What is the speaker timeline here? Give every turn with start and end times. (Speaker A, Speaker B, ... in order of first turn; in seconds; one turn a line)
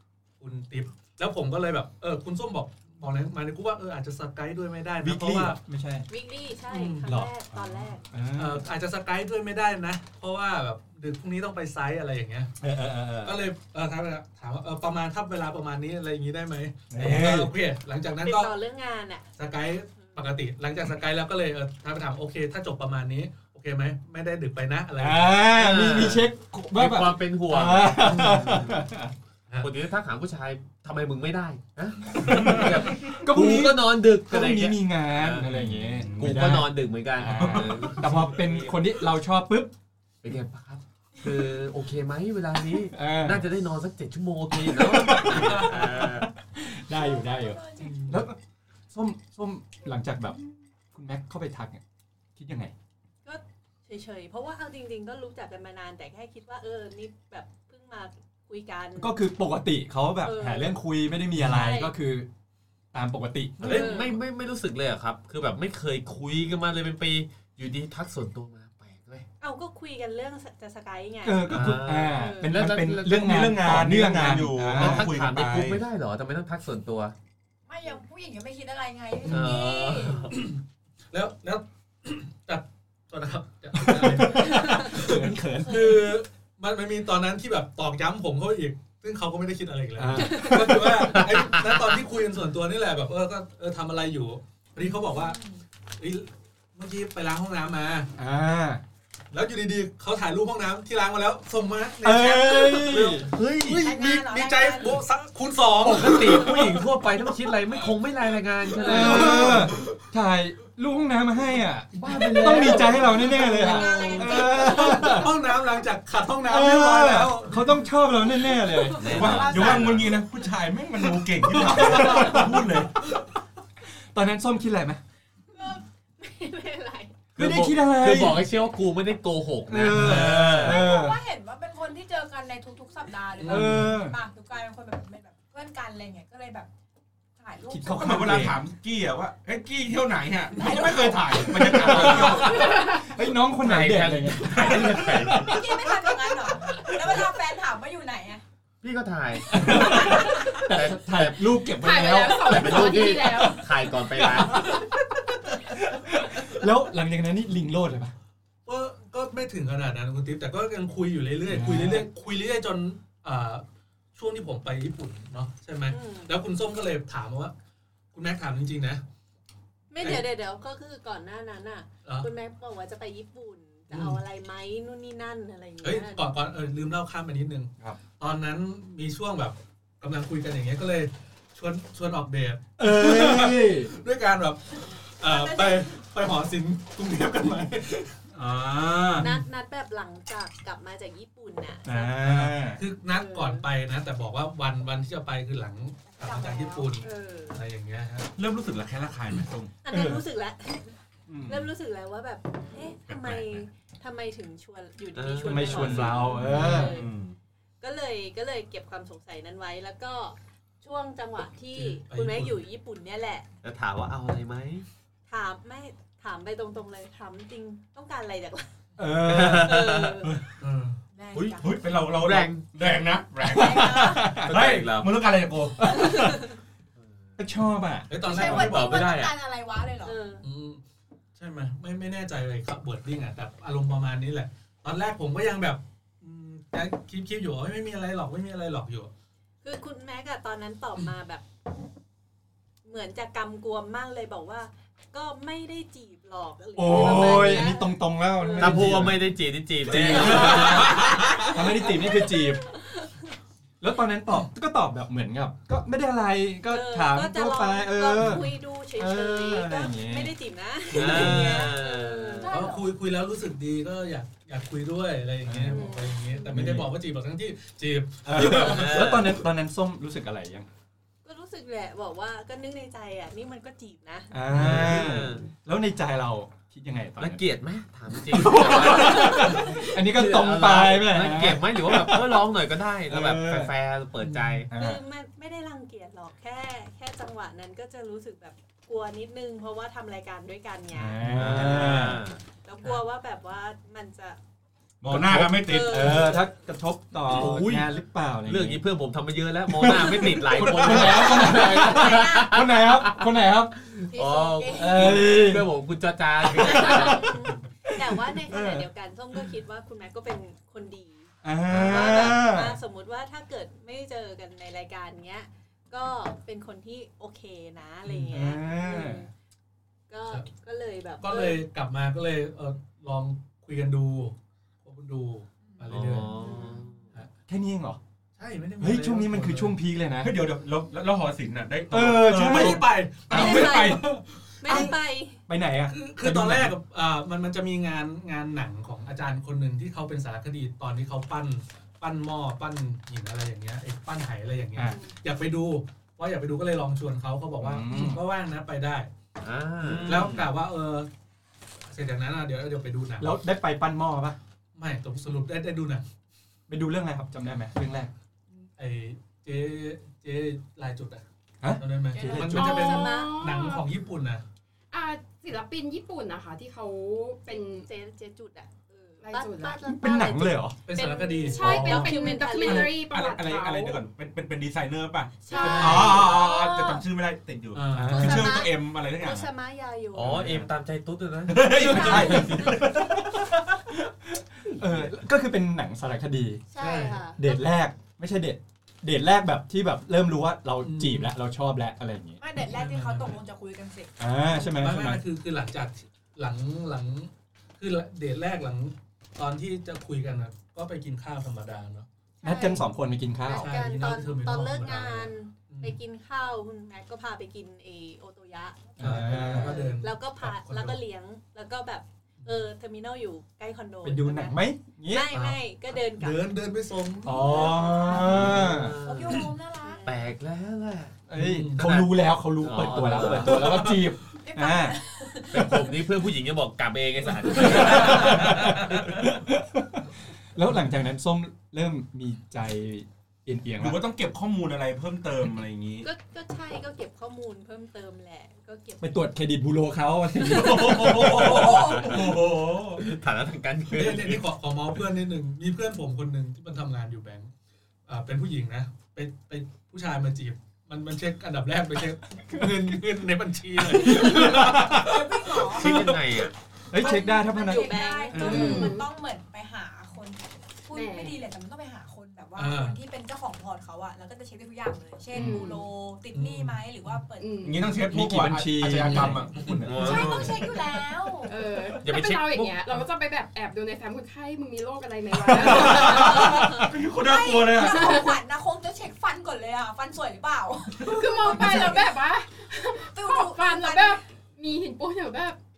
Speaker A: 0.4-5.6
Speaker B: 5.0-6.1
Speaker C: 6.1-8.0
Speaker A: 6.7-7.1
Speaker B: 7.0-8.7
Speaker A: 8.3-12.5
Speaker B: 12.6-13.4
Speaker A: 13.2-18.5
Speaker B: 16.9-17.5
Speaker C: 18.2-19.3
Speaker A: 19.4-25.4
Speaker C: 19.9-20.2
Speaker B: 25.0-29.1
Speaker D: 25.5-28.8
Speaker A: 28.0-28.4
Speaker D: 29.6-38.4
Speaker E: 32.2-33.0
Speaker B: 32.2-39.7
Speaker E: 35.4-36.6
Speaker E: 37.3-38.1
Speaker D: 40.2-46.3
Speaker B: 42.9-43.5
Speaker B: 44.7-48.4
Speaker F: 46.9-47.9
Speaker A: 47.8-48.2
Speaker B: 48.9-50.4
Speaker B: 50.9-51.8
Speaker B: 52.4-52.7
Speaker C: 53.2-59.1
Speaker B: 59.0-62.3
Speaker C: 60.2-60.8
Speaker C: 61.4-61.9
Speaker B: 62.9-63.9
Speaker D: 63.6-69.3
Speaker C: 63.6-64.2
Speaker C: 69.4-72.5
Speaker B: 71.2-75.8
Speaker D: 71.5-73.5
Speaker E: 73.1-75.7
Speaker D: 74.7-77.1
Speaker F: 77.7-80.3
Speaker A: 79.2-79.5
Speaker D: 79.2-80.3
Speaker A: 80.3-80.6
Speaker A: 81.1-95.4
Speaker B: 83.8-86.1
Speaker F: 85.7-86.0
Speaker B: 90.0-91.2
Speaker D: 91.3-91.8
Speaker F: 95.1-95.6
Speaker A: 96.0-98.1
Speaker B: 98.2-98.8
Speaker A: 99.3-106.9
Speaker B: 102.0-103.3
Speaker D: 103.3-103.9
Speaker F: 103.8-105.0
Speaker D: 105.8-109.7
Speaker A: 108.7-109.9
Speaker B: 108.8-115.3
Speaker A: 111.9-117.9
Speaker F: 112.1-115.6
Speaker D: 112.2-112.6
Speaker B: 116.4-119.5
Speaker F: 118.9-119.8
Speaker D: 119.0-120.2
Speaker E: 119.0-123.0
Speaker B: 121.5-122.6
Speaker A: 121.8-122.4
Speaker B: 124.1-125.0
Speaker C: 125.5-127.1
Speaker D: 127.3-130.9
Speaker B: 127.3-128.4
Speaker B: 129.7-131.2
Speaker A: 130.0-130.3
Speaker F: 130.6-136.7
Speaker A: 133.3-133.9
Speaker B: 133.4-134.2
Speaker F: 137.3-138.3
Speaker B: 137.7-138.6
Speaker E: 138.0-142.7
Speaker F: 140.5-141.9
Speaker B: 141.3-146.0
Speaker D: 141.8-142.6
Speaker G: 142.7-143.0
Speaker D: 143.6-145.6
Speaker F: 144.7-148.4
Speaker B: 146.6-147.1
Speaker D: 148.8-154.8
Speaker B: 149.5-158.1
Speaker G: 151.7-153.7
Speaker A: 158.7-163.6
Speaker B: 161.5-162.1
Speaker A: 164.1-167.5
Speaker C: 165.9-166.3
Speaker A: 168.1-169.0
Speaker C: 169.9-176.3
Speaker A: 170.0-170.2
Speaker A: 172.0-172.3
Speaker A: 173.9-174.2
Speaker A: 175.8-189.3
Speaker B: 182.8-183.9
Speaker C: 185.2-185.8
Speaker E: 188.4-189.2
Speaker C: 189.2-192.2
Speaker B: 191.8-192.8
Speaker A: 192.2-198.3
Speaker C: 193.1-193.6
Speaker F: 196.0-196.9
Speaker C: 197.0-197.6
Speaker E: 198.3-199.7
Speaker C: 199.8-207.1
Speaker B: 199.9-200.2
Speaker E: 201.3-201.7
Speaker E: 203.0-203.7
Speaker D: 205.1-206.4
Speaker B: 205.4-207.0
Speaker E: 206.4-207.4
Speaker C: 207.8-213.4
Speaker A: 211.7-212.6
Speaker D: 213.6-214.8
Speaker C: 215.3-218.7
Speaker B: 219.0-219.7
Speaker D: 219.2-220.3
Speaker C: 219.6-220.3
Speaker A: 220.4-221.0
Speaker F: 221.1-221.9
Speaker D: 221.3-222.6
Speaker E: 221.6-226.1
Speaker F: 223.5-224.4
Speaker B: 223.5-224.5
Speaker D: 224.4-225.2
Speaker B: 225.8-226.5
Speaker C: 226.2-226.5
Speaker D: 227.0-227.3
Speaker B: 227.4-228.1
Speaker A: 228.1-229.0
Speaker F: 228.2-230.2
Speaker D: 228.3-229.3
Speaker C: 230.0-230.4
Speaker A: 230.4-230.8
Speaker A: 231.3-239.1
Speaker C: 239.6-241.4
Speaker C: 242.8-248.9
Speaker B: 246.7-249.2
Speaker D: 248.6-251.2
Speaker B: 249.9-252.6
Speaker A: 250.1-251.5
Speaker C: 251.3-253.1
Speaker B: 253.8-260.3
Speaker C: 256.7-262.6
Speaker D: 260.9-262.5
Speaker F: 261.0-262.9
Speaker B: 261.1-261.5
Speaker A: 262.5-269.1
Speaker B: 265.4-265.9
Speaker C: 265.7-266.5
Speaker B: 266.5-266.9
Speaker B: 268.2-270.7
Speaker D: 268.4-269.4
Speaker C: 271.2-274.4
Speaker B: 274.3-277.4
Speaker D: 274.5-275.5
Speaker D: 277.2-284.7
Speaker B: 278.3-282.4
Speaker C: 278.7-279.9
Speaker B: 283.1-283.7
Speaker A: 284.2-284.6
Speaker B: 284.7-285.0
Speaker C: 284.7-292.0
Speaker B: 290.9-292.2
Speaker E: 291.2-291.9
Speaker D: 291.4-292.4
Speaker C: 292.6-294.4
Speaker E: 295.0-296.4
Speaker B: 295.1-298.8
Speaker C: 295.4-296.5
Speaker D: 297.3-297.9
Speaker D: 298.4-303.3
Speaker B: 299.8-304.0
Speaker A: 300.7-301.0
Speaker F: 301.2-302.4
Speaker D: 303.9-307.4
Speaker C: 304.1-305.2
Speaker B: 304.7-305.6
Speaker C: 306.6-319.3
Speaker B: 306.6-308.8
Speaker B: 311.4-312.8
Speaker D: 311.7-312.3
Speaker A: 318.0-318.4
Speaker B: 318.3-319.3
Speaker C: 320.1-321.6
Speaker A: 321.2-326.5
Speaker D: 325.9-327.1
Speaker C: 326.4-326.9
Speaker B: 327.5-328.0
Speaker A: 328.4-329.8
Speaker B: 328.8-330.3
Speaker E: 330.2-334.0
Speaker B: 331.9-333.7
Speaker A: 332.2-334.9
Speaker C: 333.3-335.4
Speaker B: 335.5-336.7
Speaker A: 335.9-349.1
Speaker B: 347.6-348.2
Speaker D: 349.4-350.5
Speaker A: 349.8-351.1
Speaker A: 351.9-353.4
Speaker B: 353.2-354.4
Speaker A: 354.7-356.0
Speaker B: 356.7-358.1
Speaker A: 358.6-364.4
Speaker B: 361.6-363.0
Speaker C: 362.1-363.4
Speaker G: 362.5-363.9
Speaker G: 364.9-367.9
Speaker C: 367.5-373.0
Speaker G: 369.2-369.8
Speaker B: 369.8-370.8
Speaker A: 370.8-372.1
Speaker G: 371.4-374.0
Speaker B: 371.6-372.1
Speaker E: 372.7-379.5
Speaker C: 375.4-377.0
Speaker G: 375.5-376.1
Speaker A: 375.6-376.1
Speaker B: 375.9-376.2
Speaker A: 377.7-378.6
Speaker B: 377.9-378.6
Speaker C: 378.1-380.4
Speaker D: 380.1-382.8
Speaker B: 380.4-380.6
Speaker E: 381.5-383.8
Speaker B: 381.8-382.7
Speaker F: 381.9-382.3
Speaker B: 384.7-386.6
Speaker F: 386.7-387.1
Speaker C: 386.8-387.4
Speaker A: 386.8-387.3
Speaker B: 387.4-392.4
Speaker A: 390.8-391.3
Speaker F: 392.4-394.1
Speaker A: 392.6-393.4
Speaker B: 394.2-395.2
Speaker A: 394.5-402.1
Speaker C: 402.4-402.8
Speaker B: 402.4-403.7
Speaker C: 403.5-414.6
Speaker A: 403.5-406.0
Speaker B: 409.0-409.8
Speaker A: 409.0-411.0
Speaker B: 414.0-415.3
Speaker C: 415.1-416.5
Speaker A: 415.3-415.6
Speaker A: 416.1-418.5
Speaker B: 417.2-418.9
Speaker F: 417.6-420.1
Speaker D: 418.1-419.5
Speaker C: 419.8-420.3
Speaker D: 420.0-421.2
Speaker B: 421.3-425.0
Speaker A: 421.3-422.0
Speaker D: 421.8-423.7
Speaker A: 423.3-424.1
Speaker F: 424.4-425.8
Speaker D: 425.5-429.0
Speaker B: 427.6-434.0
Speaker A: 427.8-428.8
Speaker E: 433.8-436.1
Speaker C: 436.0-439.2
Speaker B: 439.0-441.8
Speaker E: 440.4-443.1
Speaker D: 441.2-442.4
Speaker A: 441.5-442.0
Speaker D: 443.0-444.5
Speaker A: 443.9-447.5
Speaker A: 448.1-456.1
Speaker B: 452.5-453.0
Speaker B: 453.8-455.1
Speaker F: 454.5-456.0
Speaker D: 455.7-456.5
Speaker B: 456.9-458.8
Speaker F: 456.9-467.6
Speaker C: 457.6-458.9
Speaker A: 458.4-458.8
Speaker G: 458.4-459.1
Speaker G: 460.9-461.4
Speaker A: 462.6-463.0
Speaker G: 465.3-465.8
Speaker A: 466.3-467.2
Speaker G: 467.4-467.9
Speaker E: 467.6-470.5
Speaker B: 468.1-469.4
Speaker A: 469.1-469.9
Speaker D: 469.8-470.6
Speaker F: 469.9-471.7
Speaker G: 471.4-476.6
Speaker D: 472.0-472.8
Speaker B: 475.4-476.9
Speaker E: 475.7-478.1
Speaker F: 475.9-476.5
Speaker F: 477.1-482.2
Speaker G: 477.8-478.3
Speaker G: 481.0-485.6
Speaker F: 482.9-484.2